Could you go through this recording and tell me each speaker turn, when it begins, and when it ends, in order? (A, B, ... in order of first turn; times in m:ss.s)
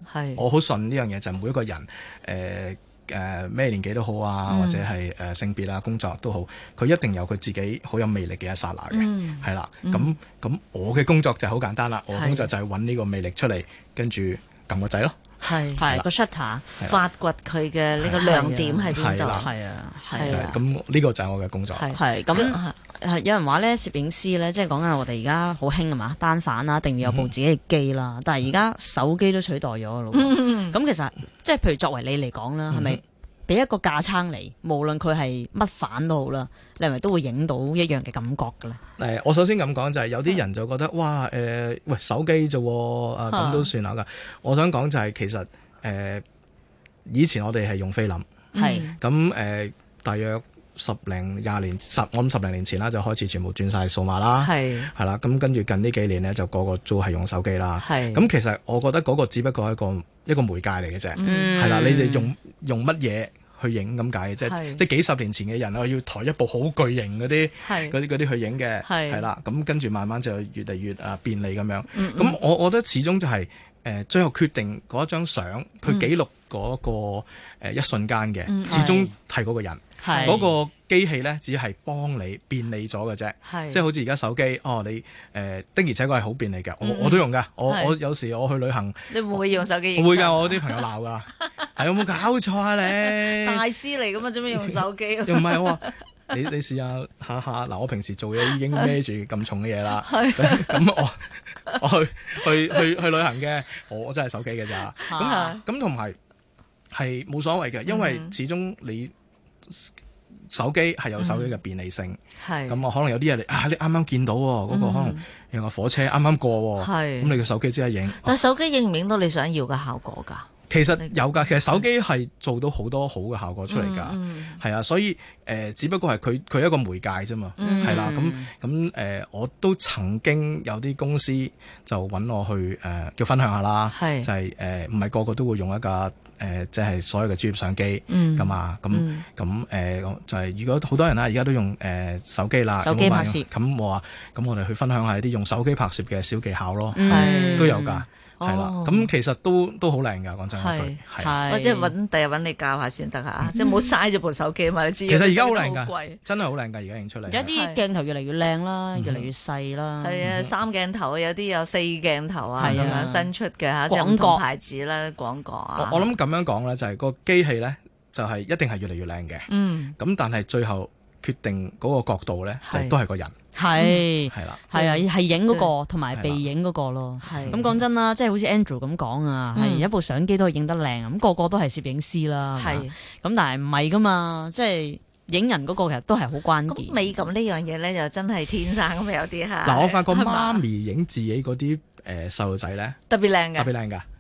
0:00.1-0:00.4 A
0:00.4-0:15.2 B
0:04.5-0:04.8 A
0:08.9-0:10.2 A
0:12.1-0:12.5 A
0:15.4-0:15.8 A
0:15.8-0:16.1 B
0:15.8-0:16.6 C
0:16.8-0:19.5 A
0:18.2-0:20.5 C
0:18.9-0:19.5 B
0:20.1-0:20.6 A
0:20.2-0:21.9 B
0:21.8-0:22.8 A
0:22.0-0:38.8 C
0:27.0-0:27.3 B
0:30.1-0:30.8 A
0:32.7-0:33.0 B
0:39.0-0:46.2 B
0:43.3-0:43.7 A
0:47.1-0:48.3 B
0:48.5-0:49.0 A
0:48.6-0:48.9 C
0:49.0-1:29.4 B
0:54.4-0:54.9 A
0:57.8-0:58.2 A
1:01.2-1:02.0 A
1:01.2-1:02.3 C
1:04.4-1:04.8 A
1:07.6-1:08.0 A
1:08.8-1:09.2 A
1:11.9-1:12.4 A
1:15.8-1:16.1 A
1:18.5-1:19.0 A
1:18.7-1:19.1 C
1:20.0-1:20.4 A
1:20.0-1:20.5 C
1:23.4-1:23.8 A
1:26.8-1:28.0 A
1:29.1-1:30.8 A
1:30.0-1:33.6 B
1:33.0-1:36.0 A
1:34.5-1:46.2 B
1:40.0-1:40.8 A
1:45.1-1:45.6 A
1:45.1-1:45.5 C
1:46.9-1:49.1 B
1:47.9-1:48.3 A
1:49.7-1:49.9 B
1:50.5-1:58.4 B
1:51.2-1:51.5 A
1:52.4-1:52.8 A
1:54.7-1:55.2 A
1:56.8-1:57.4 A
1:58.2-2:01.8 A
2:00.7-2:31.4 B
2:03.7-2:04.6 A
2:07.6-2:08.1 A
2:07.6-2:08.5 C
2:13.9-2:14.3 A
2:18.1-2:19.2 A
2:22.8-2:23.5 C
2:27.0-2:28.0 C
2:27.1-2:27.8 A
2:28.4-2:29.1 A
2:30.6-2:36.2 A
2:31.2-2:31.9 C
2:35.1-2:37.5 B
2:37.3-2:40.2 C
2:37.5-2:37.8 A
2:39.0-2:39.3 B
2:40.0-2:46.1 A
2:40.2-2:40.5 B
2:42.6-2:43.3 C
2:42.6-2:43.0 B
2:43.9-2:44.4 C
2:45.8-2:53.4 B
2:49.5-2:50.0 A
2:52.6-2:53.0 A
2:53.6-3:07.1 C
2:53.8-2:54.1 A
2:54.3-2:54.6 B
2:54.7-2:55.7 A
2:56.1-2:56.5 B
2:57.2-2:57.8 A
2:57.4-2:57.8 B
2:59.6-2:59.9 A
3:02.6-3:02.9 A
3:06.7-3:10.6 A
3:09.6-3:13.0 B
3:13.1-3:13.7 A
3:13.6-3:14.0 B